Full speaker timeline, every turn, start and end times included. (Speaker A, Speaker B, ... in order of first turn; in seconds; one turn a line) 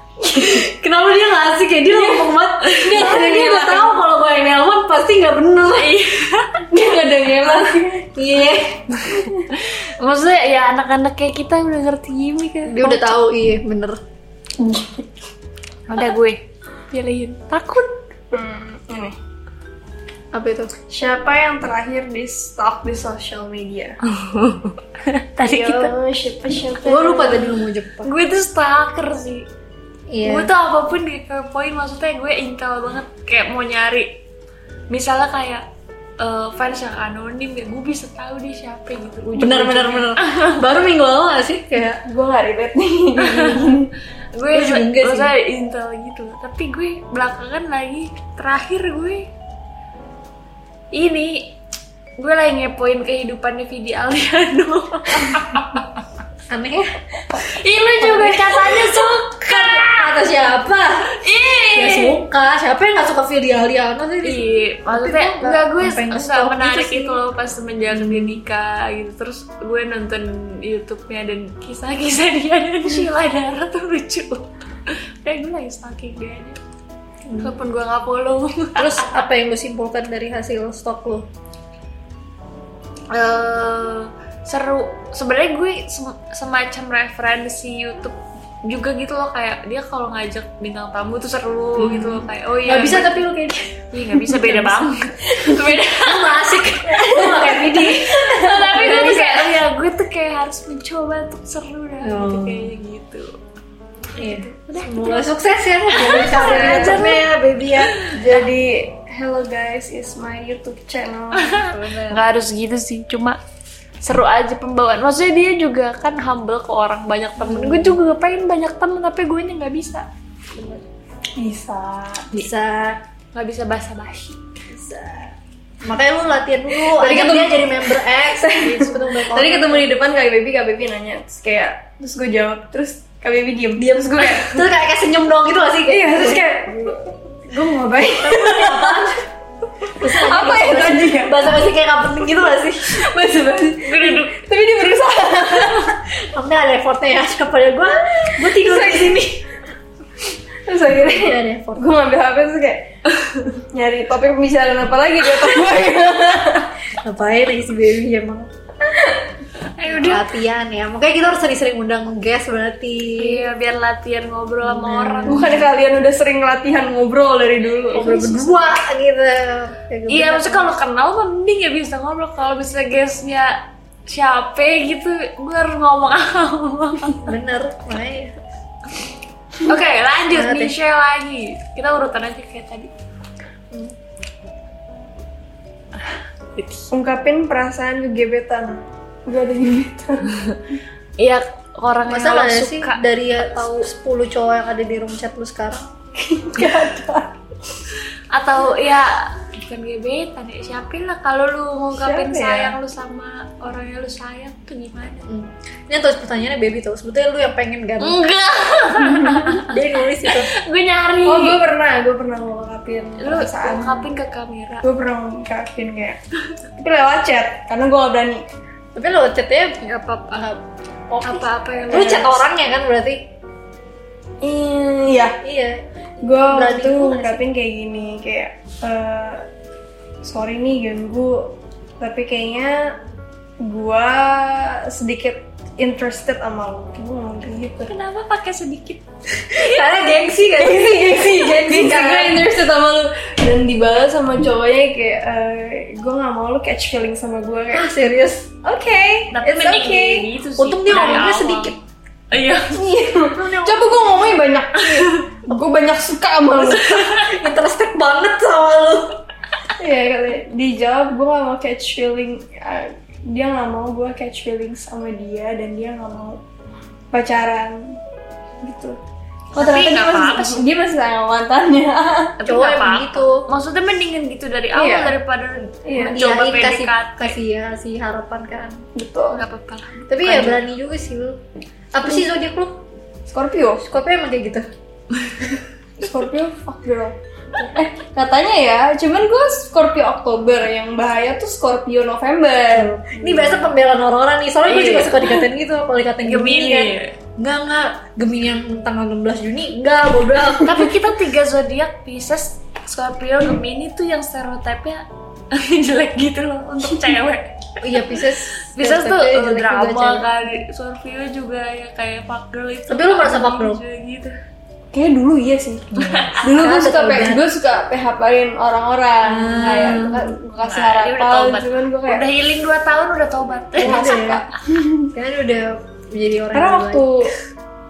Speaker A: 0.3-5.9
Speaker B: 1.9-4.0
Speaker C: 5.7-6.7
Speaker B: 6.7-8.1
Speaker A: 8.1-8.8
Speaker C: 9.1-13.1
Speaker B: 9.1-9.5
Speaker A: 12.7-14.0
Speaker B: 14.6-15.1
Speaker C: 15.9-18.0
Speaker B: 18.3-19.1
Speaker A: 20.3-20.7
Speaker B: 20.9-24.0
Speaker C: 24.1-25.9
Speaker B: 25.4-27.6
Speaker A: 26.8-28.1
Speaker C: 28.0-29.5
Speaker A: 30.1-30.5
Speaker C: 30.2-34.2
Speaker C: 34.9-35.6
Speaker C: 36.2-40.6
Speaker A: 39.3-42.0
Speaker B: 42.0-43.9
Speaker C: 43.2-43.7
Speaker C: 44.3-49.3
Speaker A: 44.5-45.3
Speaker C: 50.9-51.5
Speaker C: 52.2-55.8
Speaker A: 56.5-57.0
Speaker C: 57.6-60.1
Speaker A: 58.0-61.1
Speaker C: 61.1-62.2
Speaker A: 61.7-67.2
Speaker C: 64.2-76.6
Speaker A: 67.9-68.4
Speaker A: 77.3-77.6
Speaker C: 77.4-79.2
Speaker A: 78.8-81.2
Speaker C: 83.1-93.2
Speaker A: 91.8-94.8
Speaker C: 93.9-96.5
Speaker A: 95.8-99.6
Speaker B: 97.1-98.0
Speaker C: 98.1-103.3
Speaker A: 102.0-102.7
Speaker C: 104.1-105.3
Speaker A: 104.2-108.0
Speaker C: 105.9-107.2
Speaker B: 106.0-107.0
Speaker B: 108.0-111.6
Speaker C: 111.4-113.4
Speaker A: 111.7-112.2
Speaker C: 114.0-120.8
Speaker A: 117.4-118.0
Speaker B: 121.4-122.4
Speaker A: 122.3-123.0
Speaker C: 123.3-124.4
Speaker A: 124.7-125.3
Speaker A: 125.8-129.9
Speaker B: 126.7-134.7
Speaker A: 133.8-136.9
Speaker B: 135.9-139.2
Speaker A: 138.0-139.2
Speaker B: 139.8-141.5
Speaker A: 140.0-143.1
Speaker B: 142.5-146.0
Speaker C: 143.8-144.4
Speaker A: 145.9-149.4
Speaker B: 148.2-149.4
Speaker B: 150.7-156.7
Speaker A: 150.9-151.9
Speaker A: 157.0-158.5
Speaker C: 159.8-160.3
Speaker A: 159.8-163.4
Speaker C: 163.2-165.6
Speaker A: 164.6-165.5
Speaker B: 165.3-168.1
Speaker C: 167.9-168.5
Speaker A: 167.9-170.8
Speaker C: 170.1-177.3
Speaker A: 177.2-178.3
Speaker C: 179.6-182.9
Speaker A: 180.3-180.7
Speaker C: 186.5-186.9
Speaker B: 186.9-190.4
Speaker C: 191.2-193.0
Speaker A: 192.1-195.9
Speaker B: 196.2-197.3
Speaker C: 198.3-205.2
Speaker B: 201.9-202.7
Speaker A: 205.3-208.2
Speaker C: 208.0-209.7
Speaker A: 209.5-210.5
Speaker C: 210.2-211.6
Speaker B: 211.2-214.0
Speaker C: 213.2-214.8
Speaker B: 214.8-216.2
Speaker B: 216.8-218.4
Speaker A: 218.9-223.2
Speaker C: 221.2-222.3
Speaker B: 221.9-222.4
Speaker B: 224.4-225.4
Speaker A: 225.4-227.4
Speaker B: 226.2-229.5
Speaker B: 230.2-233.0
Speaker B: 233.6-237.9
Speaker C: 237.9-240.1
Speaker A: 239.6-242.4
Speaker B: 239.6-247.9
Speaker A: 247.7-248.5
Speaker B: 248.6-250.3
Speaker C: 249.3-252.8
Speaker A: 250.6-251.8
Speaker B: 252.7-257.2
Speaker A: 253.4-254.2
Speaker C: 256.9-257.3
Speaker A: 257.2-259.2
Speaker B: 259.8-266.4
Speaker B: 267.1-268.0
Speaker B: 268.6-269.0
Speaker C: 269.5-270.6
Speaker B: 269.6-272.4
Speaker A: 272.4-273.4
Speaker C: 272.4-277.4
Speaker B: 274.7-275.2
Speaker B: 275.8-276.2
Speaker A: 276.1-278.8
Speaker B: 278.9-279.4
Speaker C: 279.3-280.6
Speaker A: 280.1-281.4
Speaker A: 281.9-282.8
Speaker B: 283.3-283.9
Speaker A: 283.9-284.7
Speaker B: 286.0-293.7
Speaker A: 292.7-300.9
Speaker C: 294.7-295.3
Speaker C: 296.2-297.1
Speaker C: 300.6-314.4
Speaker A: 307.8-310.3
Speaker A: 312.9-313.8
Speaker B: 314.9-322.3
Speaker C: 315.9-316.5
Speaker A: 316.0-317.4
Speaker A: 319.2-320.3
Speaker C: 320.6-324.3
Speaker A: 323.8-324.4
Speaker B: 323.8-325.1
Speaker A: 325.1-327.3
Speaker B: 326.5-327.3